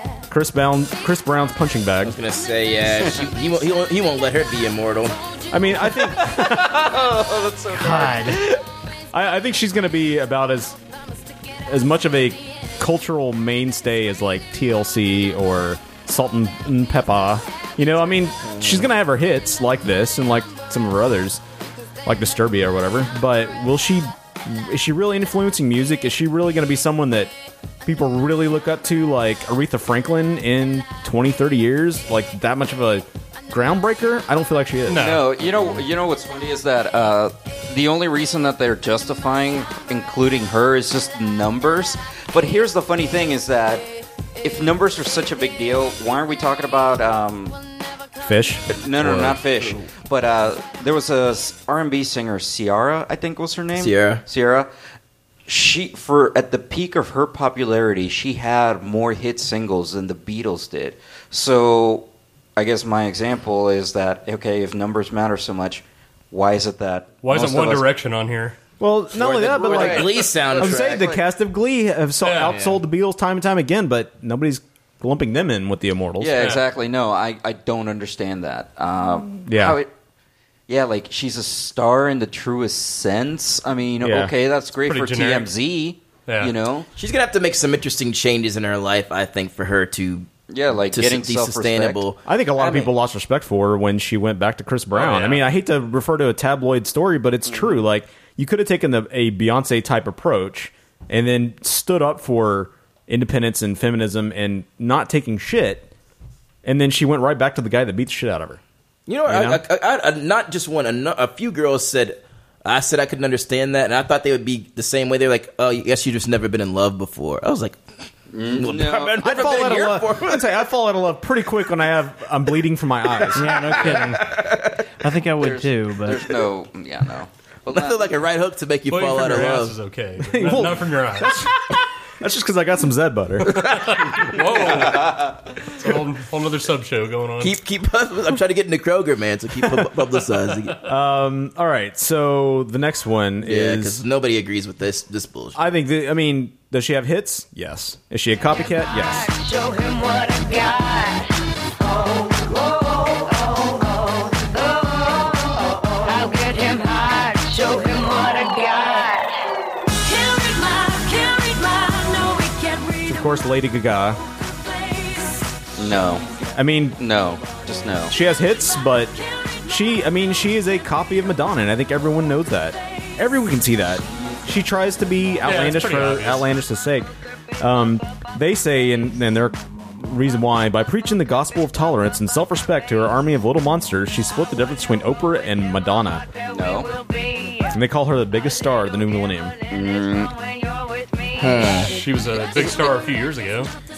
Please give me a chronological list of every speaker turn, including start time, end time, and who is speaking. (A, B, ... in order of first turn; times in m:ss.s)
0:00.3-0:02.2 A
0:02.0-0:05.2 B
0:03.0-0:03.2 C
0:05.5-0:06.8 A
0:05.9-0:08.6 C
0:09.1-0:10.8 A
0:11.7-0:21.4 A
0:18.4-0:18.9 B
0:22.0-0:27.3 A
0:27.8-0:35.1 A
0:34.9-0:35.2 D
0:34.9-0:43.9 C
0:44.4-0:47.6 C
0:48.2-0:49.4 A
0:48.7-0:54.7 C
0:53.8-0:54.2 B
0:55.5-1:02.1 C
1:02.6-1:07.8 C
1:07.2-1:08.6 D
1:08.8-1:16.4 A
1:09.2-1:11.0 B
1:09.6-1:11.2 C
1:12.2-1:12.5 D
1:12.4-1:12.8 B
1:16.2-1:19.9 C
1:19.4-1:19.8 A
1:20.7-1:26.9 C
1:24.0-1:24.3 A
1:24.8-1:25.5 D
1:26.3-1:26.5 D
1:27.0-1:30.3 B
1:30.5-1:32.0 C
1:30.9-1:32.9 B
1:32.2-1:45.9 A
1:34.9-1:35.4 D
1:46.6-1:48.6 A
1:49.1-1:57.8 B
1:49.3-1:49.6 A
1:58.3-1:59.9 C
1:58.6-2:00.5 B
1:59.2-2:03.9 A
2:03.4-2:04.3 E
2:03.7-2:04.1 C
2:05.0-2:06.2 E
2:05.4-2:08.1 C
2:07.7-2:09.8 B
2:08.9-2:11.3 D
2:10.3-2:11.6 A
2:12.2-2:13.6 A
2:13.5-2:15.2 D
2:14.6-2:15.3 C
2:15.8-2:17.6 D
2:17.4-2:20.8 B
2:20.8-2:24.0 A
2:23.5-2:25.6 B
2:25.6-2:29.3 A
2:28.9-2:31.3 F
2:31.8-2:39.3 F
2:40.0-2:43.4 F
2:43.1-2:44.2 A
2:44.5-2:45.4 F
2:45.8-2:46.3 C
2:46.5-2:47.0 A
2:47.0-2:48.2 C
2:48.1-3:06.3 A
2:55.4-2:56.5 D
3:06.5-3:06.9 C
3:06.5-3:07.7 F
3:07.7-3:09.5 A
3:09.7-3:10.3 C
3:10.2-3:11.6 F
3:11.4-3:11.9 B
3:11.9-3:13.7 D
3:12.5-3:13.0 C